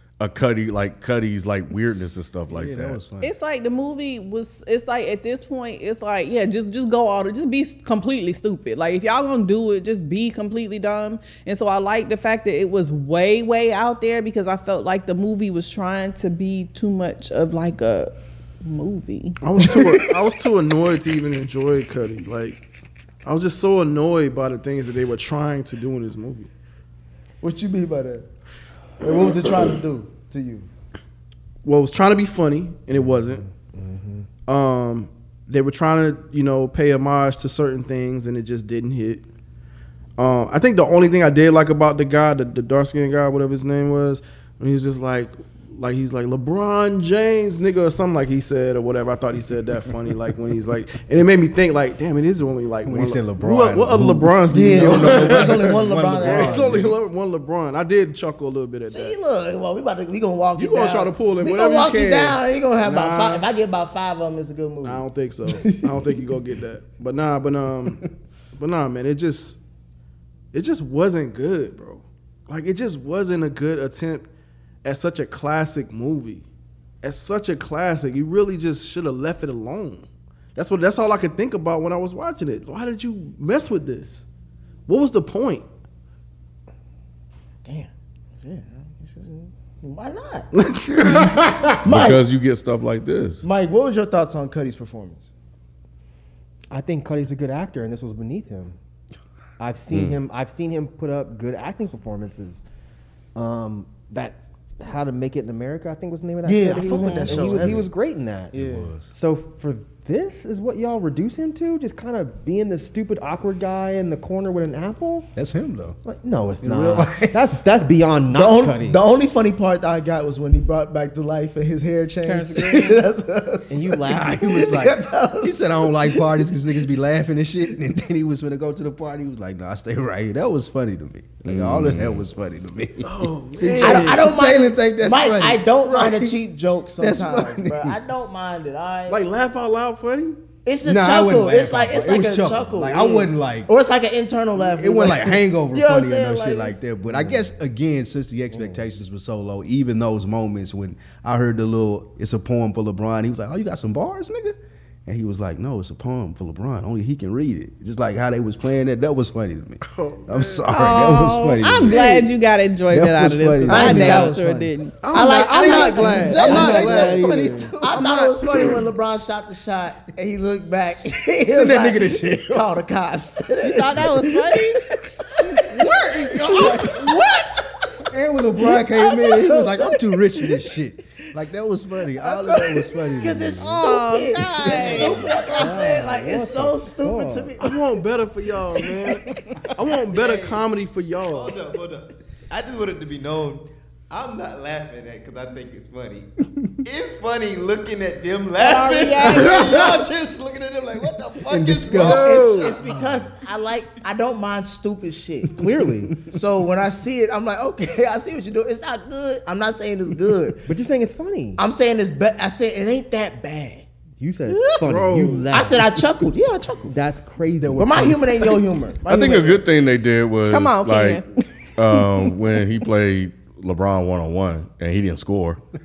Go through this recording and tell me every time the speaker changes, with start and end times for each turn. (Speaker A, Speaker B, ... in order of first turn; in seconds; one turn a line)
Speaker A: 0.2-3.0
Speaker B: 2.5-3.3
Speaker C: 3.2-18.1
Speaker C: 18.6-19.4
Speaker D: 19.4-22.6
Speaker D: 23.2-26.5
Speaker E: 27.4-28.3
Speaker E: 29.0-30.7
Speaker D: 31.6-33.5
Speaker F: 33.6-34.3
Speaker D: 34.5-39.2
Speaker D: 40.2-59.2
Speaker B: 52.9-56.9
Speaker E: 54.5-56.9
Speaker E: 58.9-65.1
Speaker D: 60.6-63.5
Speaker D: 64.8-68.0
Speaker D: 68.6-69.6
Speaker D: 70.5-74.3
Speaker D: 74.8-76.5
Speaker D: 77.0-84.2
Speaker D: 84.9-85.7
Speaker E: 87.7-90.5
Speaker D: 90.5-91.9
Speaker E: 91.8-92.2
Speaker A: 91.8-93.4
Speaker E: 93.4-95.3
Speaker F: 96.7-98.8
Speaker F: 99.6-102.6
Speaker A: 99.9-100.2
Speaker F: 103.3-115.3
Speaker E: 106.5-107.8
Speaker C: 107.0-107.5
Speaker B: 107.3-107.9
Speaker E: 108.5-108.9
Speaker B: 108.5-109.1
Speaker B: 115.3-116.0
Speaker F: 116.0-119.0
Speaker B: 116.6-117.4
Speaker E: 118.3-126.6
Speaker C: 122.2-123.0
Speaker F: 123.7-124.9
Speaker B: 124.1-136.4
Speaker A: 131.4-132.2
Speaker D: 133.0-134.2
Speaker E: 133.8-139.2
Speaker B: 137.0-138.0
Speaker D: 139.1-140.4
Speaker E: 140.7-146.8
Speaker B: 140.8-143.7
Speaker B: 144.6-162.3
Speaker F: 147.1-147.4
Speaker F: 148.5-148.8
Speaker D: 159.9-160.9
Speaker C: 160.7-165.0
Speaker B: 162.9-164.4
Speaker E: 163.7-177.7
Speaker D: 165.0-167.2
Speaker B: 165.1-168.8
Speaker F: 166.3-167.8
Speaker B: 171.4-172.7
Speaker C: 173.6-174.8
Speaker C: 175.8-177.7
Speaker B: 178.1-183.8
Speaker E: 178.4-180.8
Speaker E: 182.1-187.9
Speaker C: 183.6-185.8
Speaker G: 184.7-185.4
Speaker F: 184.7-187.6
Speaker D: 187.6-191.6
Speaker G: 190.1-190.7
Speaker G: 191.2-196.3
Speaker G: 196.8-203.3
Speaker C: 198.6-199.8
Speaker D: 199.4-200.0
Speaker F: 201.5-202.5
Speaker D: 201.9-202.8
Speaker E: 202.0-205.7
Speaker F: 205.5-206.2
Speaker E: 206.2-210.7
Speaker F: 210.7-211.6
Speaker E: 211.6-213.9
Speaker F: 214.2-215.9
Speaker C: 214.5-214.8
Speaker D: 214.8-215.5
Speaker E: 215.5-216.9
Speaker F: 216.9-218.4
Speaker B: 217.6-218.1
Speaker E: 217.8-219.7
Speaker A: 219.1-221.2
Speaker C: 220.5-222.3
Speaker A: 221.8-225.6